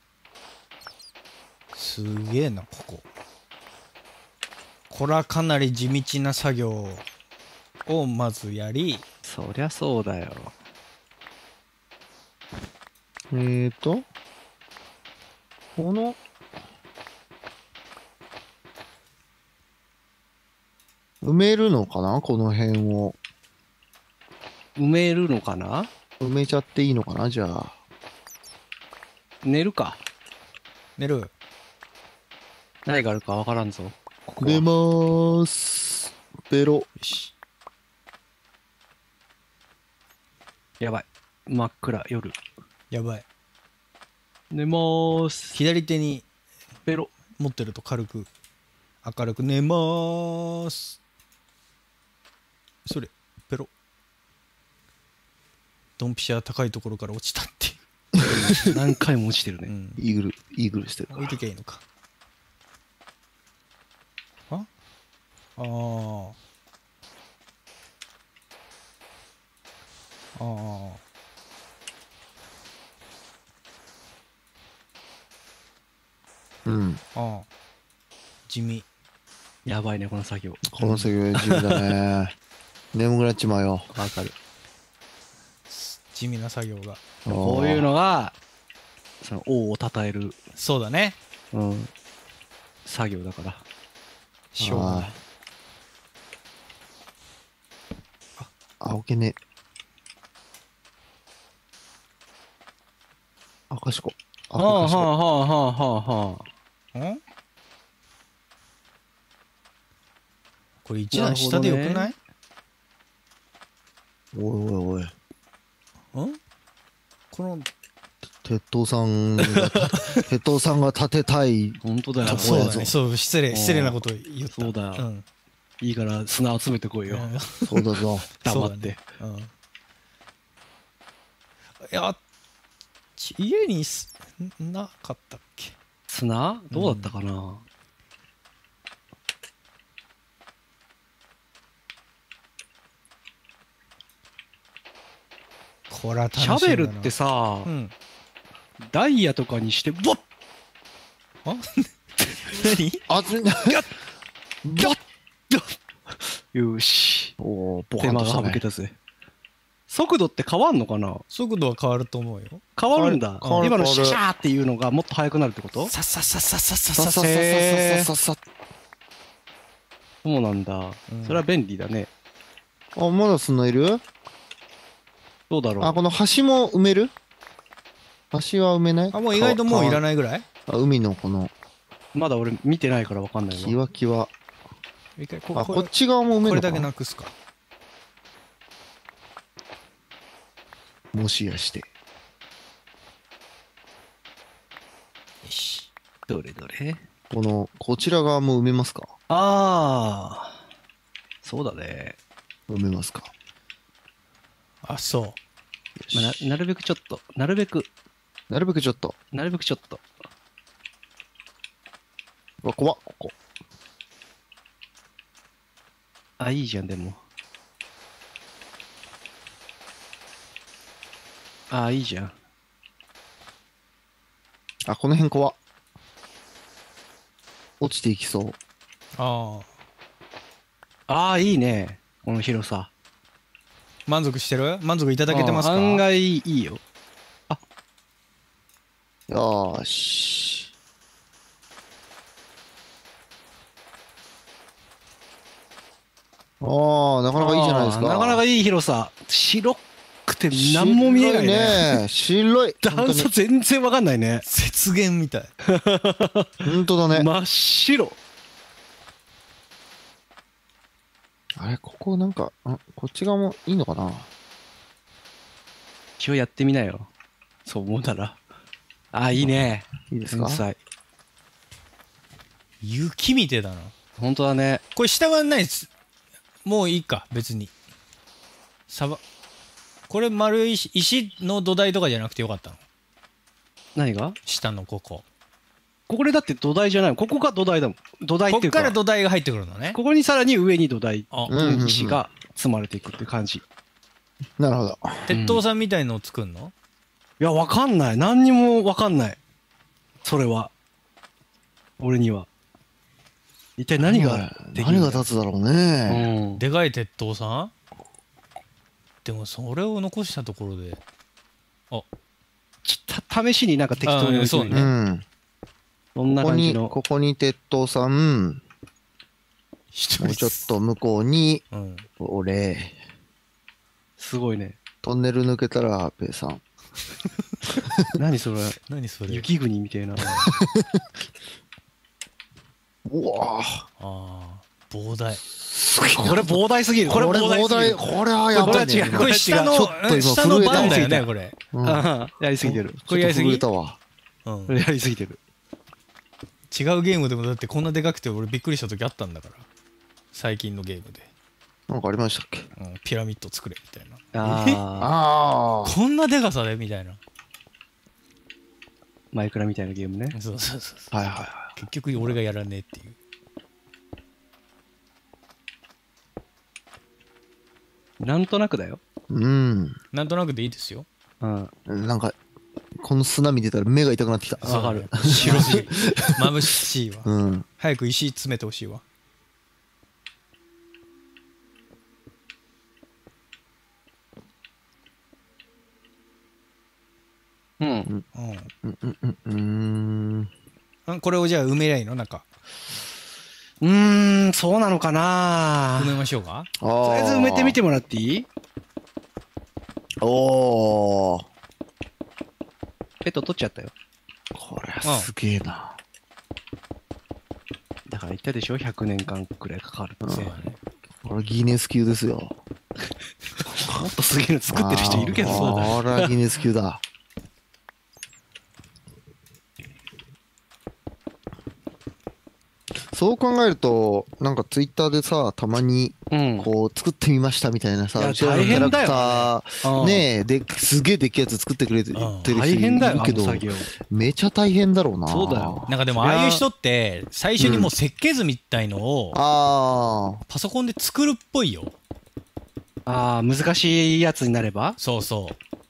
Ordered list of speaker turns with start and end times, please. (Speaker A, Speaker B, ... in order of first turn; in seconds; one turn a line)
Speaker A: 1.7-3.0
Speaker A: 4.9-7.0
Speaker A: 7.8-9.0
Speaker B: 9.2-10.5
Speaker C: 13.3-14.1
Speaker C: 15.8-16.2
Speaker C: 21.2-23.1
Speaker B: 24.8-25.9
Speaker C: 26.2-27.7
Speaker B: 29.4-30.0
Speaker A: 31.0-31.3
Speaker B: 32.9-34.6
Speaker C: 34.4-36.9
Speaker A: 37.0-37.3
Speaker B: 40.8-42.4
Speaker A: 42.9-43.2
Speaker B: 44.5-45.5
Speaker A: 45.5-46.2
Speaker A: 47.4-48.3
Speaker A: 49.0-51.0
Speaker A: 52.8-53.7
Speaker A: 56.0-57.8
Speaker B: 58.3-59.7
Speaker A: 59.7-60.0
Speaker C: 60.0-61.3
Speaker A: 61.1-61.8
Speaker A: 65.6-66.3
Speaker A: 70.3-71.0
Speaker C: 76.7-77.0
Speaker A: 77.1-77.5
Speaker A: 78.5-78.8
Speaker B: 79.6-80.7
Speaker C: 80.7-82.3
Speaker A: 80.8-81.1
Speaker B: 81.3-81.9
Speaker C: 82.9-83.9
Speaker B: 83.9-84.3
Speaker A: 85.7-87.0
Speaker C: 87.2-87.9
Speaker B: 87.3-88.3
Speaker B: 89.2-90.4
Speaker A: 90.5-91.2
Speaker B: 91.5-91.9
Speaker B: 92.8-93.6
Speaker A: 94.5-95.1
Speaker C: 94.6-95.1
Speaker C: 98.4-99.4
Speaker C: 103.7-105.1
Speaker B: 104.6-106.4
Speaker A: 106.9-107.2
Speaker A: 110.8-112.1
Speaker B: 111.1-112.1
Speaker C: 114.3-115.1
Speaker A: 116.1-116.4
Speaker A: 117.3-117.7
Speaker C: 118.4-122.9
Speaker B: 119.4-119.9
Speaker A: 119.9-120.2
Speaker B: 121.8-122.7
Speaker A: 122.2-125.2
Speaker B: 123.5-124.0
Speaker B: 124.5-125.0
Speaker B: 125.8-127.3
Speaker A: 127.1-127.9
Speaker C: 127.7-128.3
Speaker B: 128.4-129.0
Speaker A: 128.4-129.5
Speaker A: 131.8-132.2
Speaker A: 133.2-135.7
Speaker B: 136.1-137.6
Speaker A: 136.7-137.1
Speaker A: 145.9-147.1
Speaker B: 146.3-147.7
Speaker A: 147.6-147.9
Speaker B: 148.8-150.2
Speaker A: 151.4-153.0
Speaker C: 153.1-153.8
Speaker C: 154.6-155.0
Speaker B: 155.5-157.3
Speaker C: 157.4-158.6
Speaker B: 158.0-158.9
Speaker B: 159.9-161.2
Speaker A: 161.3-162.6
Speaker B: 162.8-165.9
Speaker C: 162.9-164.2
Speaker A: 163.4-163.7
Speaker A: 165.8-167.3
Speaker C: 166.9-168.4
Speaker B: 167.2-168.1
Speaker B: 170.2-172.1
Speaker A: 171.1-171.4
Speaker C: 172.9-174.0
Speaker B: 175.5-176.0
Speaker C: 175.8-177.1
Speaker C: 178.3-180.0
Speaker A: 179.1-180.4
Speaker C: 180.7-181.5
Speaker B: 182.1-183.8
Speaker C: 183.5-184.3
Speaker A: 185.2-185.9
Speaker C: 185.5-186.9
Speaker A: 186.4-187.3
Speaker C: 191.1-191.8
Speaker A: 195.4-195.9
Speaker B: 196.3-197.0
Speaker C: 197.3-199.1
Speaker B: 199.3-200.6
Speaker B: 201.4-202.2
Speaker C: 202.7-203.3
Speaker A: 204.8-205.4
Speaker C: 206.0-206.4
Speaker B: 206.1-207.9
Speaker C: 208.5-209.2
Speaker B: 209.3-210.0
Speaker C: 212.6-213.3
Speaker B: 216.4-217.2
Speaker B: 221.7-222.3
Speaker C: 224.8-225.6
Speaker C: 227.8-228.6
Speaker A: 229.2-229.7
Speaker B: 231.1-232.9
Speaker A: 234.1-236.0
Speaker B: 235.3-236.8
Speaker C: 239.3-240.7
Speaker C: 246.6-248.4
Speaker B: 247.3-252.0
Speaker C: 250.5-253.3
Speaker B: 252.8-254.4
Speaker A: 254.4-255.5
Speaker B: 255.7-258.1
Speaker C: 256.6-257.3
Speaker C: 261.6-264.3
Speaker B: 266.2-267.1
Speaker B: 267.6-268.4
Speaker B: 269.1-270.8
Speaker C: 270.1-270.6
Speaker A: 272.8-273.9
Speaker B: 274.2-274.8
Speaker A: 274.9-275.9
Speaker A: 276.6-277.7
Speaker A: 278.9-279.2
Speaker A: 280.1-282.8
Speaker B: 283.9-284.4
Speaker A: 284.4-285.2
Speaker B: 286.1-288.9
Speaker A: 288.5-290.0
Speaker B: 289.9-293.6
Speaker A: 291.3-291.6
Speaker C: 291.5-292.2
Speaker C: 294.6-295.3
Speaker A: 295.3-296.7
Speaker B: 295.3-295.6
Speaker B: 297.4-299.4
Speaker B: 300.2-300.7
Speaker B: 302.0-302.5
Speaker B: 303.8-305.2
Speaker C: 304.0-306.3
Speaker B: 306.1-306.6
Speaker A: 306.6-307.7
Speaker A: 309.2-311.0
Speaker B: 312.8-314.9
Speaker A: 314.0-314.9
Speaker C: 314.7-315.2
Speaker B: 316.1-316.9
Speaker C: 316.4-318.6
Speaker A: 319.9-320.6
Speaker C: 320.2-321.6
Speaker A: 321.7-322.1
Speaker C: 322.2-323.0
Speaker B: 324.2-324.8
Speaker C: 325.0-326.6
Speaker B: 328.2-330.6
Speaker A: 328.9-329.5
Speaker C: 330.4-331.0
Speaker C: 333.0-333.8
Speaker A: 334.0-335.4
Speaker C: 335.5-339.4
Speaker B: 336.2-338.0
Speaker B: 338.5-340.0
Speaker A: 339.1-341.6
Speaker C: 340.0-341.2
Speaker B: 340.7-341.2
Speaker C: 341.7-342.1
Speaker B: 341.8-343.6
Speaker C: 342.6-344.0
Speaker A: 344.4-344.8
Speaker B: 344.7-345.4
Speaker A: 346.7-349.7
Speaker A: 350.3-351.3
Speaker C: 351.9-352.7
Speaker A: 352.8-354.8
Speaker B: 354.3-355.1
Speaker C: 355.0-356.0
Speaker A: 355.8-357.2
Speaker B: 359.3-360.4
Speaker A: 360.3-363.1
Speaker C: 361.1-361.7
Speaker B: 368.2-369.0
Speaker C: 369.3-369.9
Speaker A: 370.1-371.1
Speaker B: 371.4-371.7
Speaker C: 371.9-372.3
Speaker C: 373.0-376.5
Speaker A: 374.6-377.3
Speaker B: 374.6-375.8
Speaker C: 377.2-377.6
Speaker A: 377.8-379.0
Speaker B: 387.8-388.1
Speaker A: 388.3-388.7
Speaker C: 388.8-390.5
Speaker A: 391.1-392.4
Speaker B: 393.8-396.1
Speaker A: 396.0-396.7
Speaker C: 396.8-397.8
Speaker B: 397.0-398.5
Speaker C: 400.2-401.4
Speaker B: 403.2-403.9
Speaker C: 404.5-406.0
Speaker A: 405.0-405.3
Speaker B: 408.1-410.5
Speaker C: 410.2-410.6
Speaker A: 410.3-410.8
Speaker C: 411.2-412.6
Speaker B: 413.7-416.3
Speaker C: 413.8-414.1
Speaker C: 414.7-417.0
Speaker A: 415.1-416.0
Speaker C: 423.1-435.9
Speaker B: 426.3-426.7
Speaker B: 428.2-430.2
Speaker A: 428.6-429.3
Speaker A: 432.1-432.5
Speaker B: 432.5-433.9
Speaker B: 435.3-436.6
Speaker A: 435.9-439.4
Speaker C: 437.6-437.9
Speaker C: 439.3-440.4
Speaker A: 440.5-441.9
Speaker B: 443.1-445.0
Speaker A: 445.0-445.6